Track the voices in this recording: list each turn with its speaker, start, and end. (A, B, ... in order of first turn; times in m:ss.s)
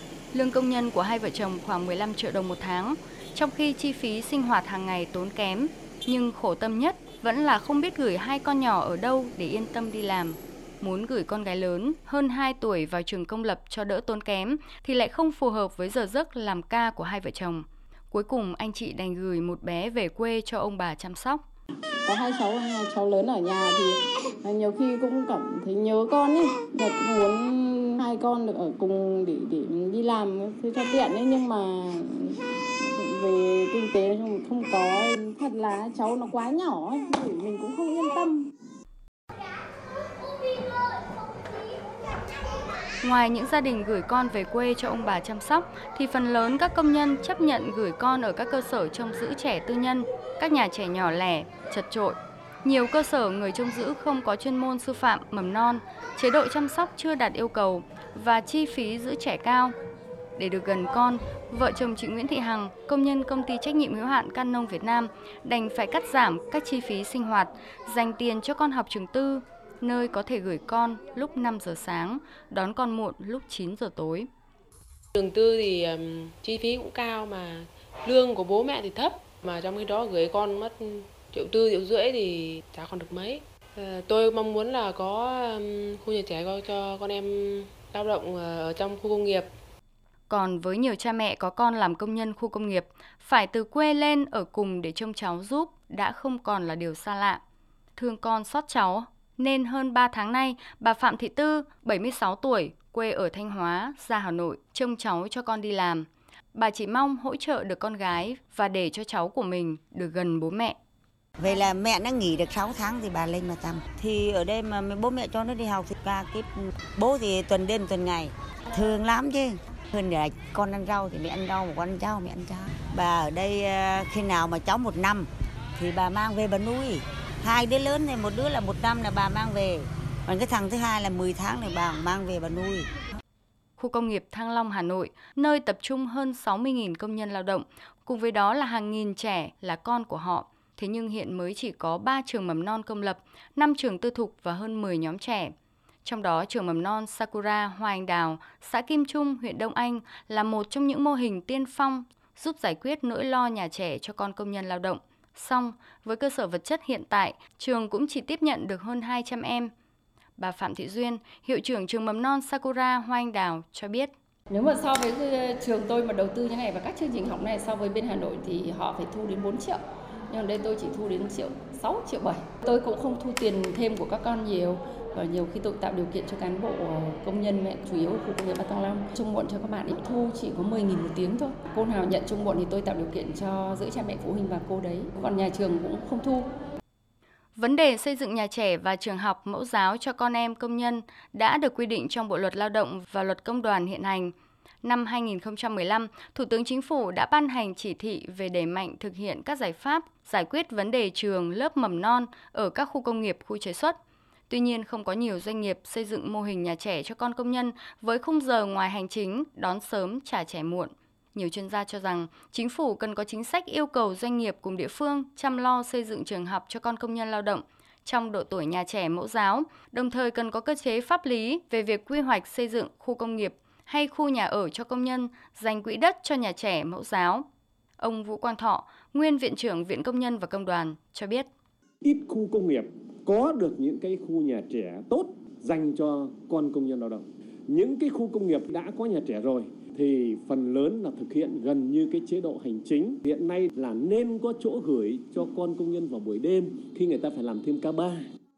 0:00.3-0:21.4 A
0:22.1-0:23.9 B
0:24.4-0:27.4 B
0:28.0-0:32.0 B
0:33.0-0:38.4 B
0:43.0-0:59.8 A
1:00.4-1:14.3 A
1:15.2-1:29.5 C
1:30.3-1:37.4 A
1:38.0-1:50.8 A
1:51.4-2:12.9 D
2:13.8-2:25.5 A
2:26.0-2:39.7 A
2:40.4-2:44.1 A
2:44.5-2:49.8 E
2:50.3-3:06.5 E
3:07.6-3:24.0 A
3:24.5-3:47.4 A
3:48.0-3:51.5 A
3:52.0-4:08.2 F